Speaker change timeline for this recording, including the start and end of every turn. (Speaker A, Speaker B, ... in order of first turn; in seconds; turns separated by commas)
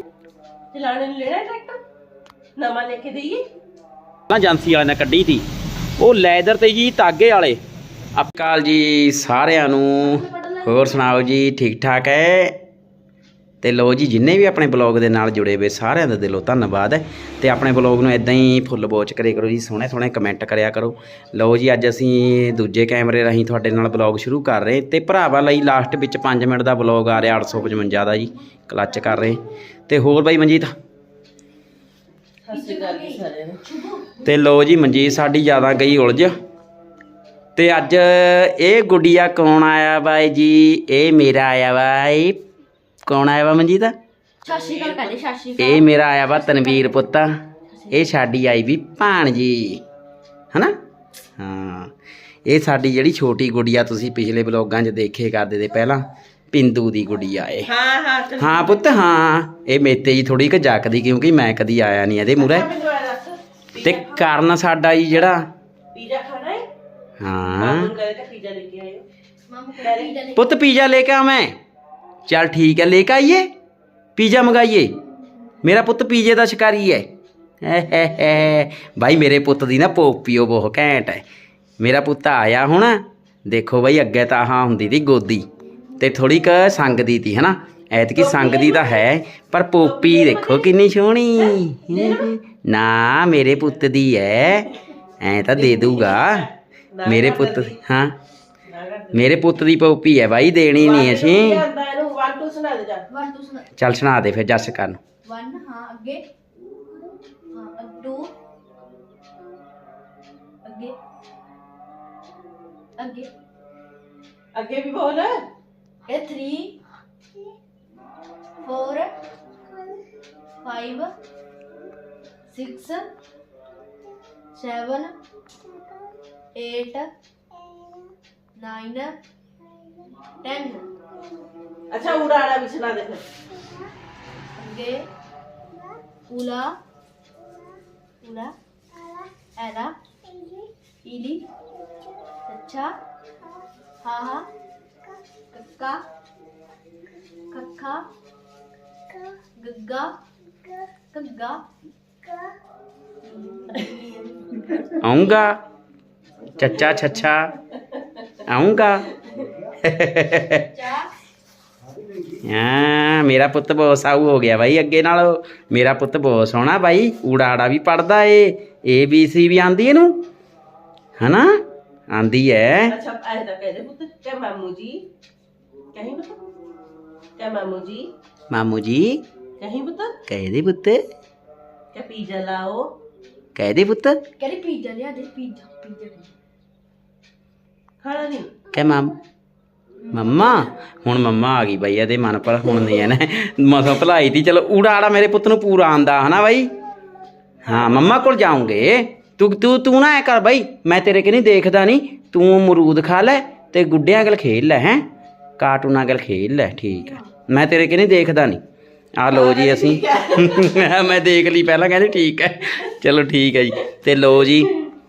Speaker A: 0.7-1.8, Speaker A: 2.6-3.4, Speaker B: 4.3-5.5, Speaker B: 6.0-7.6, Speaker B: 8.2-12.6, Speaker C: 10.2-10.6, Speaker B: 13.6-30.7, Speaker A: 32.4-33.6, Speaker C: 32.5-34.3, Speaker B: 34.2-36.4, Speaker B: 37.6-42.4, Speaker B: 43.1-44.0, Speaker C: 44.4-47.0, Speaker A: 44.5-45.1, Speaker B: 45.6-47.4, Speaker B: 47.9-49.8, Speaker B: 51.4-51.9, Speaker B: 52.5-57.7, Speaker A: 57.7-59.0, Speaker B: 58.4-62.7, Speaker A: 62.4-64.3, Speaker B: 63.8-65.5, Speaker A: 65.9-66.7, Speaker B: 67.2-67.9, Speaker A: 67.5-69.0, Speaker C: 69.5-70.5, Speaker A: 69.8-70.2, Speaker B: 70.3-71.6, Speaker B: 72.3-73.5, Speaker B: 74.2-75.0, Speaker B: 75.6-77.1, Speaker B: 77.6-81.2, Speaker B: 81.8-85.5, Speaker B: 86.0-94.7, Speaker A: 88.2-89.1, Speaker A: 89.8-90.7, Speaker A: 91.4-92.3, Speaker A: 93.5-93.8, Speaker B: 95.2-96.5, Speaker A: 95.5-97.8, Speaker B: 97.0-98.2, Speaker A: 98.7-99.4, Speaker B: 99.1-101.6, Speaker A: 100.8-103.1, Speaker C: 103.1-103.7, Speaker B: 103.8-105.0, Speaker C: 105.2-106.3, Speaker C: 107.5-108.3, Speaker C: 110.6-111.0, Speaker C: 113.0-113.3, Speaker A: 114.5-115.4, Speaker C: 116.1-116.8, Speaker C: 118.6-119.1, Speaker C: 120.6-121.1, Speaker C: 122.5-123.1, Speaker C: 124.5-125.2, Speaker C: 126.5-127.1, Speaker C: 128.6-129.2, Speaker C: 130.4-130.9, Speaker A: 131.9-133.2, Speaker C: 134.6-135.1, Speaker C: 136.3-136.8, Speaker C: 138.2-138.5, Speaker C: 139.6-141.5, Speaker C: 142.5-142.9, Speaker C: 144.0-144.5, Speaker C: 145.5-146.0, Speaker C: 147.5-148.1, Speaker C: 149.6-150.2, Speaker C: 151.1-151.7, Speaker C: 153.2-154.8, Speaker B: 155.0-155.6, Speaker B: 156.6-157.5, Speaker B: 158.5-159.1, Speaker B: 159.8-160.7, Speaker C: 160.6-161.1, Speaker B: 162.4-170.2, Speaker B: 171.2-172.9, Speaker A: 172.9-175.1, Speaker A: 175.9-176.4, Speaker A: 177.4-178.1, Speaker B: 178.5-179.2, Speaker A: 179.6-180.2, Speaker B: 180.3-181.0, Speaker A: 181.9-182.9, Speaker B: 183.6-184.2, Speaker C: 184.4-186.3, Speaker A: 188.0-188.5, Speaker B: 188.7-189.2, Speaker B: 190.1-196.7, Speaker B: 197.7-205.1, Speaker B: 205.6-208.6, Speaker B: 209.2-214.7, Speaker A: 209.3-210.9